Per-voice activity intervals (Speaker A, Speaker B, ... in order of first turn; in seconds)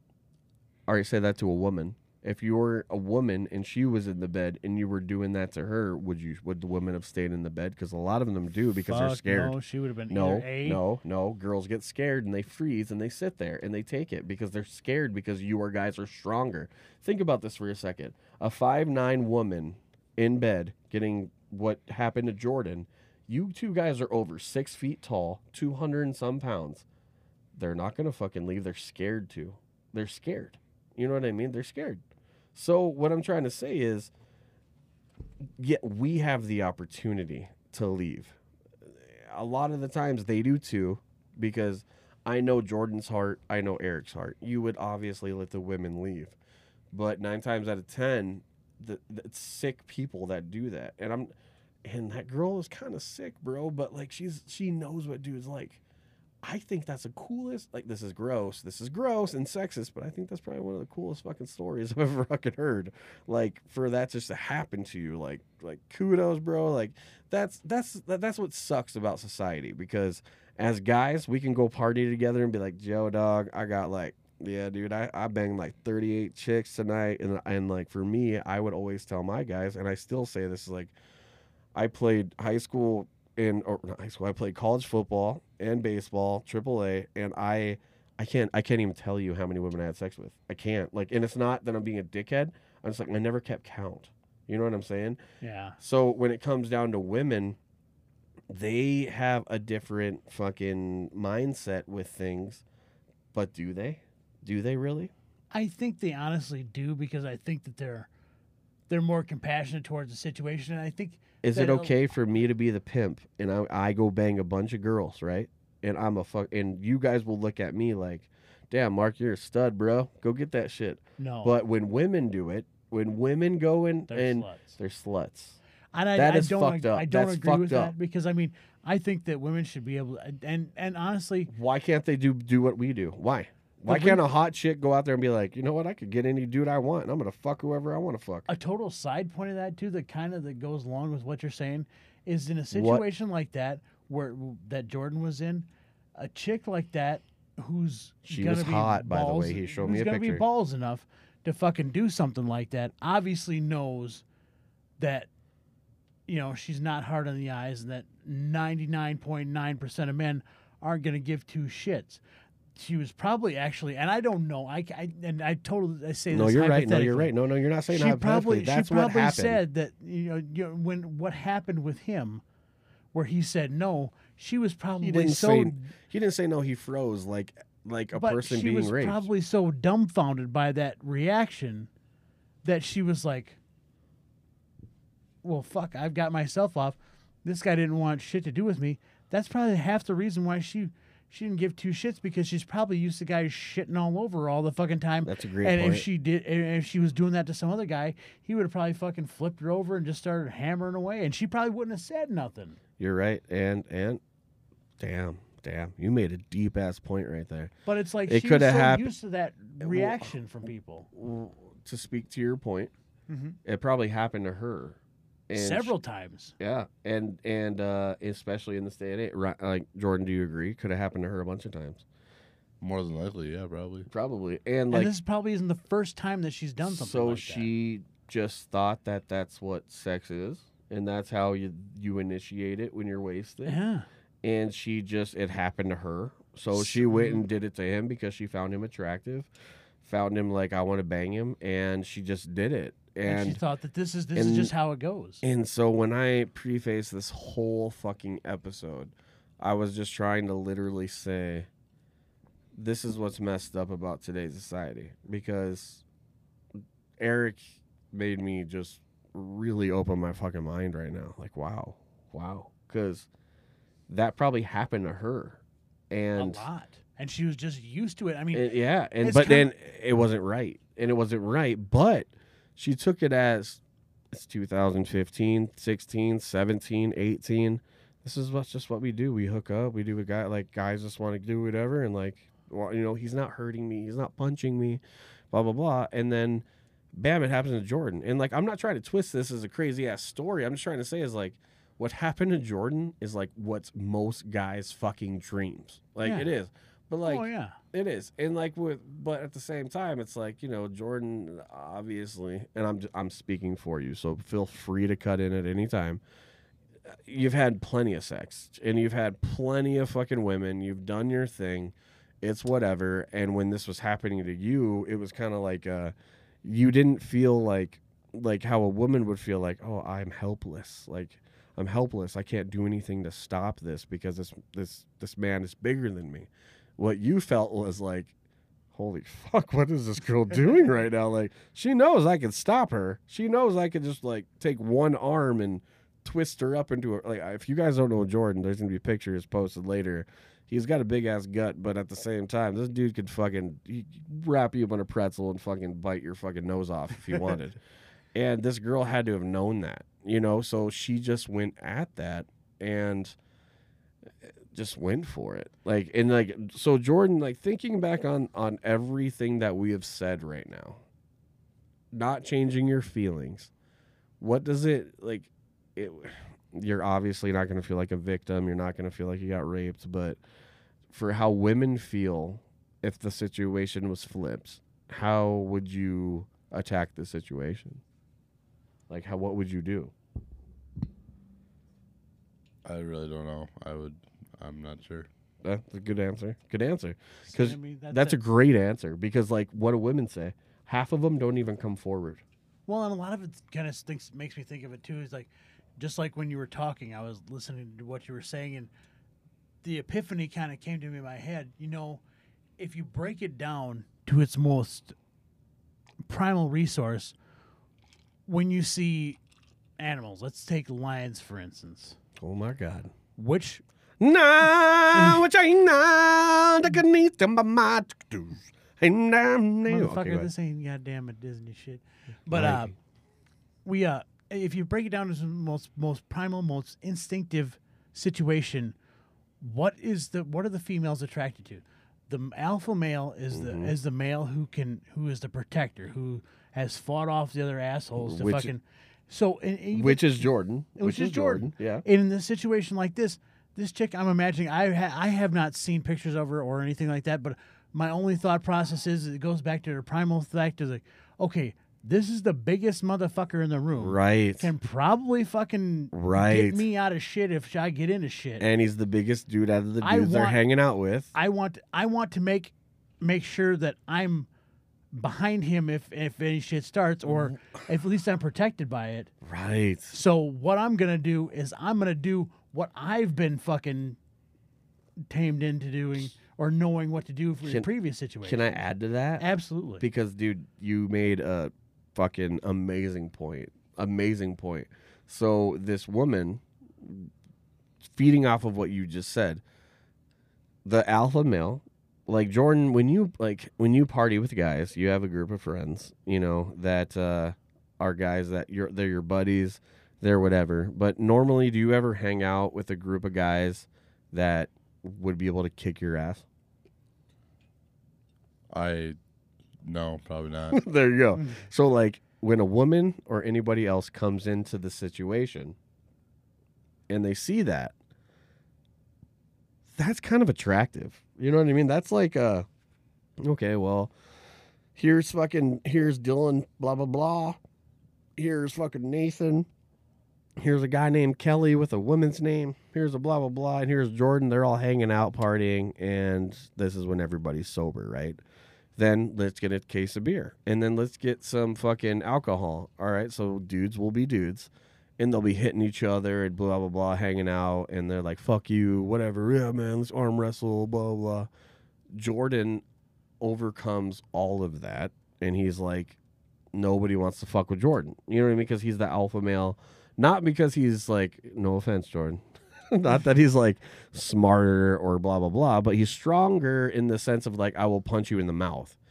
Speaker A: 0.9-9.6, 10.1-26.9, 27.5-32.0, 32.5-34.1, 35.6-46.4, 46.9-51.3, 51.9-55.8, 56.4-80.9, 81.8-95.2, 95.8-97.6, 98.5-102.6, 103.3-105.1, 111.4-125.6, 126.2-127.9, 131.5-138.5, 142.7-143.1, 148.3-150.4, 166.3-169.6, 175.0-179.3, 195.2-196.1, 203.0-204.2, 205.0-207.7, 208.3-209.1, 209.8-210.3, 211.1-212.9, 213.6-215.0, 215.5-215.9, 216.6-222.1, 224.1-225.1, 226.8-233.8, 234.4-239.5, 240.0-243.6, 244.3-244.7, 245.4-251.7, 252.7-256.0, 257.2-263.3, 264.1-266.7, 268.5-306.2, 307.1-328.3, 328.9-347.8, 348.4-353.4, 354.7-361.0, 362.1-363.7, 364.4-370.4, 371.1-378.0, 379.1-380.1, 385.6-392.4, 412.4-413.1, 414.2-420.5, 422.5-422.9, 433.5-433.9, 438.2-438.7, 439.9-442.1, 454.0-454.7, 456.1-456.9, 458.6-461.3, 469.4-470.2, 477.6-477.9, 478.4-479.5, 480.0-487.3, 488.0-489.6, 490.9-506.5, 510.7-515.8, 517.1-517.9, 520.0-522.7, 523.4-524.1, 525.0-527.6, 528.4-529.7, 530.6-538.4, 539.0-551.5, 552.1-552.8, 553.4-556.2, 556.7-569.0
Speaker B: 8.9-10.8, 95.4-95.8, 105.5-108.1, 108.9-111.9, 121.2-121.5, 124.1-124.8, 125.9-131.5, 133.8-134.2, 138.5-154.2, 155.0-155.3, 156.3-162.2, 162.8-167.3, 167.9-172.4, 173.1-175.9, 178.1-181.9, 182.6-183.6, 185.4-202.8, 207.9-211.1, 213.3-213.6, 215.5-216.6, 224.9-227.7, 233.6-234.1, 236.7-237.4, 243.2-245.4, 266.4-268.7, 269.2-269.7, 296.2-296.5, 297.2-297.8, 387.5-388.4, 392.9-398.9, 399.8-402.2, 402.8-405.2, 406.2-407.4, 408.5-409.4, 410.0-412.2, 413.4-413.8, 419.9-422.9, 423.9-428.9, 429.6-458.7, 460.0-460.6, 461.3-464.5, 465.1-469.3, 470.1-474.2, 475.2-478.8, 479.4-480.0
Speaker C: 222.8-224.1, 382.9-385.3, 508.7-509.2, 509.8-510.8